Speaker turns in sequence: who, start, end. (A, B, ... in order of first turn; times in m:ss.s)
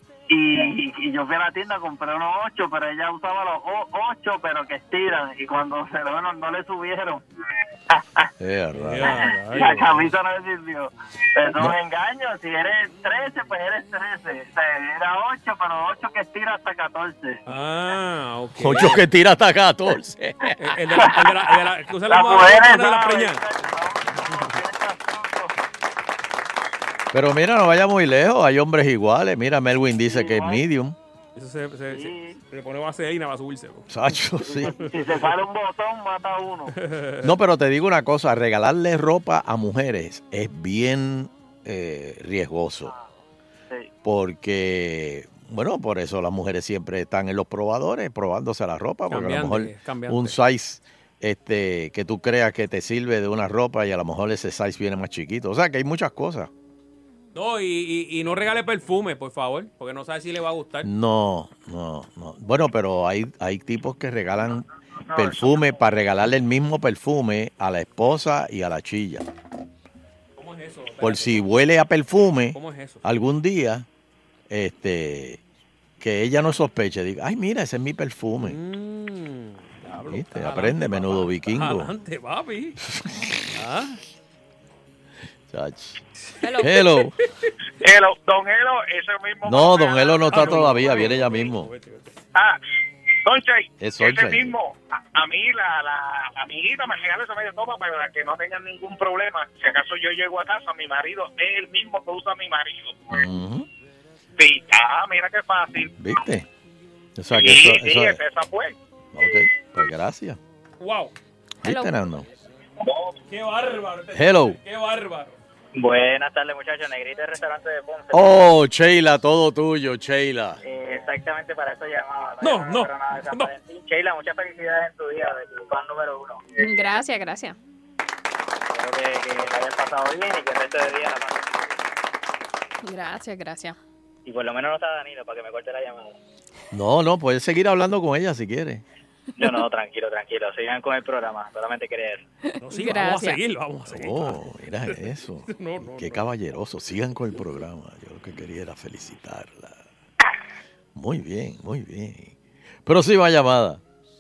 0:00.3-0:07.2 A
0:07.9-0:08.3 A
0:08.4-0:09.3 B
0:08.7-0:10.1 C
0:09.0-0:17.4 A
0:11.5-0:11.8 B
0:17.5-0:19.0 C
0:18.6-0:20.6 B
0:20.6-0:23.4 C
0:22.1-0:25.5 A
0:24.3-0:24.6 C
0:27.1-0:31.0 B
0:30.0-0:30.6 A
0:31.4-0:33.9 C
0:31.9-0:32.4 A
0:33.9-0:34.8 B
0:34.4-0:36.7 A
0:34.7-0:35.1 C
0:36.8-0:37.3 C
0:37.2-0:42.9 B
0:44.0-0:56.5 B
0:49.1-0:50.4 C
0:57.4-1:00.9 C
1:00.8-1:09.3 B
1:10.4-1:11.4 C
1:11.0-1:13.9 B
1:12.5-1:13.0 C
1:14.5-1:15.4 B
1:16.0-1:18.6 B
1:18.4-1:22.8 C
1:20.1-1:21.9 B
1:22.8-1:23.5 B
1:23.5-1:24.0 C
1:25.5-1:26.0 B
1:26.4-1:26.7 D
1:26.6-1:27.2 B
1:27.8-1:30.7 E
1:29.4-1:31.7 B
1:30.3-1:32.2 C
1:33.2-1:43.1 E
1:33.8-1:34.5 B
1:43.1-1:43.7 B
1:44.4-1:45.9 E
1:46.0-1:46.5 B
1:47.2-1:48.2 B
1:47.3-1:48.8 E
1:49.1-1:50.4 B
1:50.8-1:51.1 C
1:51.6-1:52.3 B
1:51.6-1:52.0 D
1:53.3-1:55.4 C
1:54.1-1:54.6 B
1:55.7-1:58.4 F
1:58.1-2:00.6 B
2:00.6-2:06.5 F
2:02.4-2:03.5 C
2:06.6-2:07.6 D
2:08.7-2:11.6 F
2:12.8-2:13.8 D
2:14.2-2:16.2 F
2:16.7-2:18.8 B
2:19.4-2:22.2 F
2:22.5-2:23.4 D
2:22.6-2:26.2 C
2:23.9-2:29.8 B
2:31.0-2:32.4 B
2:32.9-2:33.8 B